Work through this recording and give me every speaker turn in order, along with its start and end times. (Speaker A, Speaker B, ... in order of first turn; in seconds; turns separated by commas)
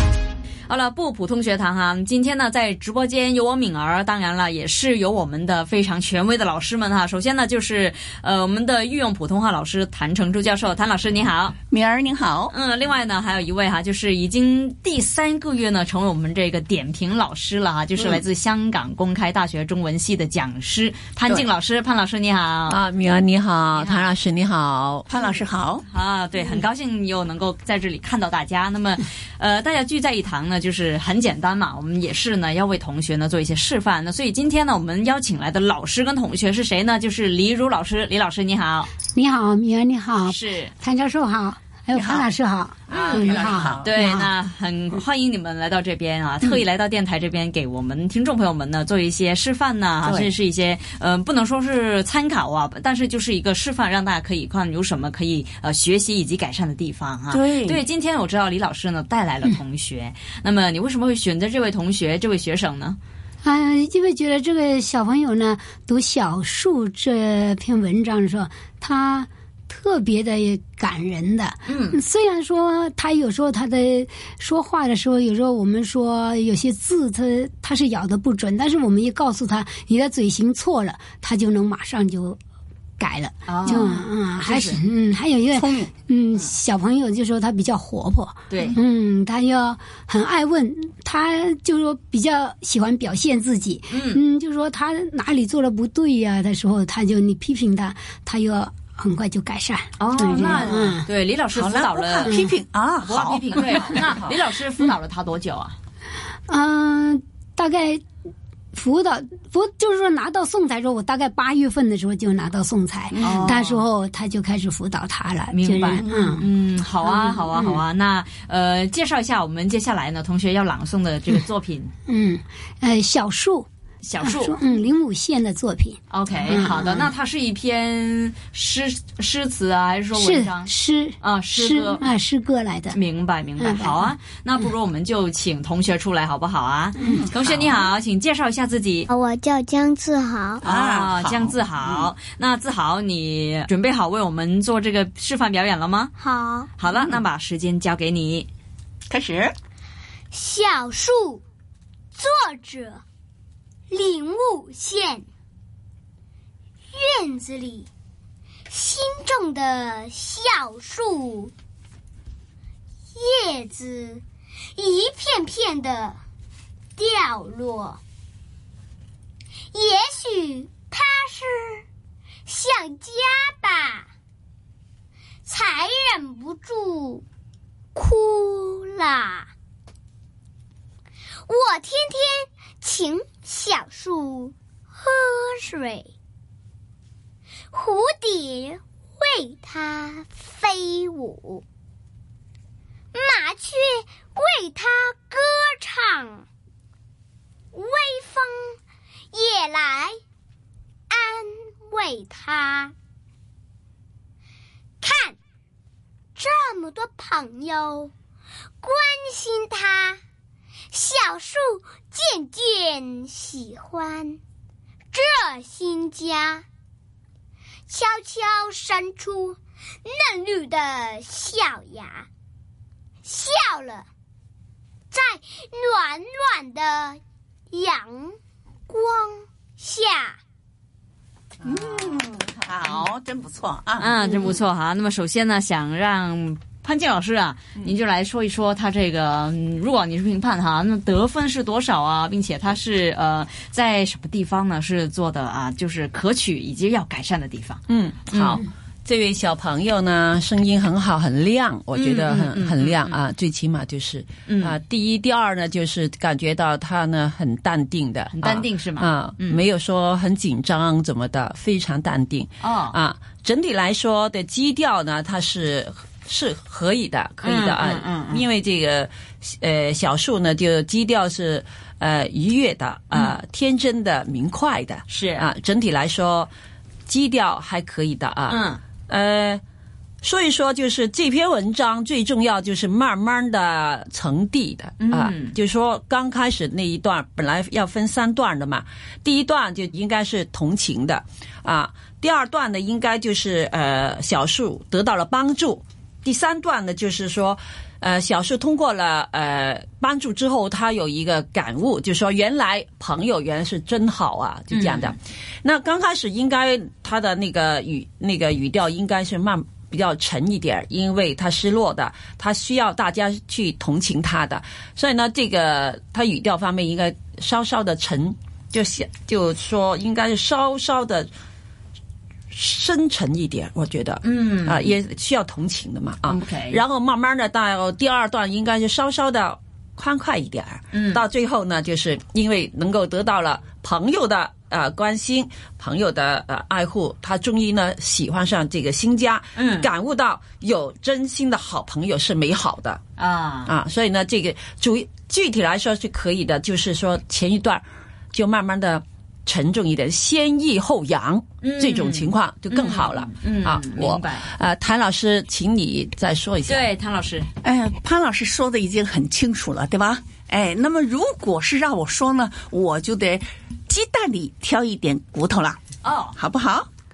Speaker A: 0.7-11.6, Speaker B: 11.7-12.5, Speaker A: 12.5-22.8, Speaker B: 18.0-18.2, Speaker C: 22.7-25.1, Speaker A: 23.7-24.1, Speaker B: 25.1-25.8, Speaker A: 25.9-38.9, Speaker D: 39.1-44.3, Speaker A: 40.2-40.7, Speaker B: 42.0-42.3, Speaker A: 42.9-63.0, Speaker B: 43.0-43.9, Speaker B: 57.3-57.8, Speaker D: 63.4-82.4, Speaker A: 71.7-72.0, Speaker D: 83.0-101.1, Speaker A: 83.5-84.8, Speaker B: 85.6-85.9, Speaker A: 88.5-88.8, Speaker A: 93.9-94.2, Speaker A: 100.0-102.4, Speaker B: 101.5-103.6, Speaker D: 102.2-102.5, Speaker A: 103.0-105.8, Speaker C: 104.0-104.3, Speaker D: 106.5-108.0, Speaker D: 108.7-116.5, Speaker B: 113.1-113.5, Speaker A: 113.2-113.8, Speaker A: 115.5-121.9, Speaker D: 117.0-117.8, Speaker D: 122.1-123.7, Speaker A: 124.0-124.6, Speaker D: 124.2-127.1, Speaker A: 126.1-132.1, Speaker D: 130.1-133.0, Speaker A: 132.9-139.1, Speaker D: 133.6-134.2, Speaker D: 137.0-137.2, Speaker B: 137.1-137.9, Speaker E: 139.1-140.6, Speaker B: 140.6-142.1, Speaker A: 140.6-146.1, Speaker E: 146.2-146.7, Speaker A: 146.8-148.5, Speaker B: 149.1-149.5, Speaker E: 150.3-151.4, Speaker E: 152.1-153.0, Speaker E: 153.9-155.2, Speaker E: 156.9-157.9, Speaker E: 158.7-161.5, Speaker E: 163.1-164.2, Speaker E: 164.8-166.2, Speaker E: 167.0-168.0, Speaker E: 169.7-171.8, Speaker E: 172.5-174.1, Speaker E: 175.4-177.2, Speaker E: 177.9-179.5, Speaker E: 181.5-186.1, Speaker E: 187.7-191.6, Speaker E: 193.1-196.4, Speaker E: 197.7-198.8, Speaker E: 199.3-200.2, Speaker E: 201.1-202.9, Speaker E: 205.0-205.4, Speaker E: 206.3-208.1, Speaker E: 208.8-210.2, Speaker E: 210.9-214.4, Speaker E: 215.1-216.6, Speaker E: 217.9-222.3, Speaker E: 223.2-224.1, Speaker E: 225.1-228.3, Speaker E: 228.9-230.4, Speaker B: 231.6-234.6, Speaker A: 234.0-248.6, Speaker C: 247.9-276.5, Speaker A: 251.9-253.2, Speaker A: 254.5-254.8, Speaker A: 258.3-259.6, Speaker A: 262.6-263.0, Speaker A: 267.4-268.4, Speaker A: 275.1-275.4, Speaker C: 277.1-279.6, Speaker A: 278.5-278.8, Speaker C: 280.2-321.3, Speaker A: 285.0-285.6, Speaker A: 304.7-305.1, Speaker C: 322.5-343.0, Speaker A: 324.2-324.9, Speaker A: 326.3-326.8, Speaker A: 330.9-331.2, Speaker A: 339.6-339.9, Speaker A: 343.2-343.7, Speaker C: 343.6-356.9, Speaker A: 351.6-354.5, Speaker A: 356.7-357.5, Speaker B: 357.6-365.7, Speaker A: 366.0-366.4, Speaker B: 366.4-366.8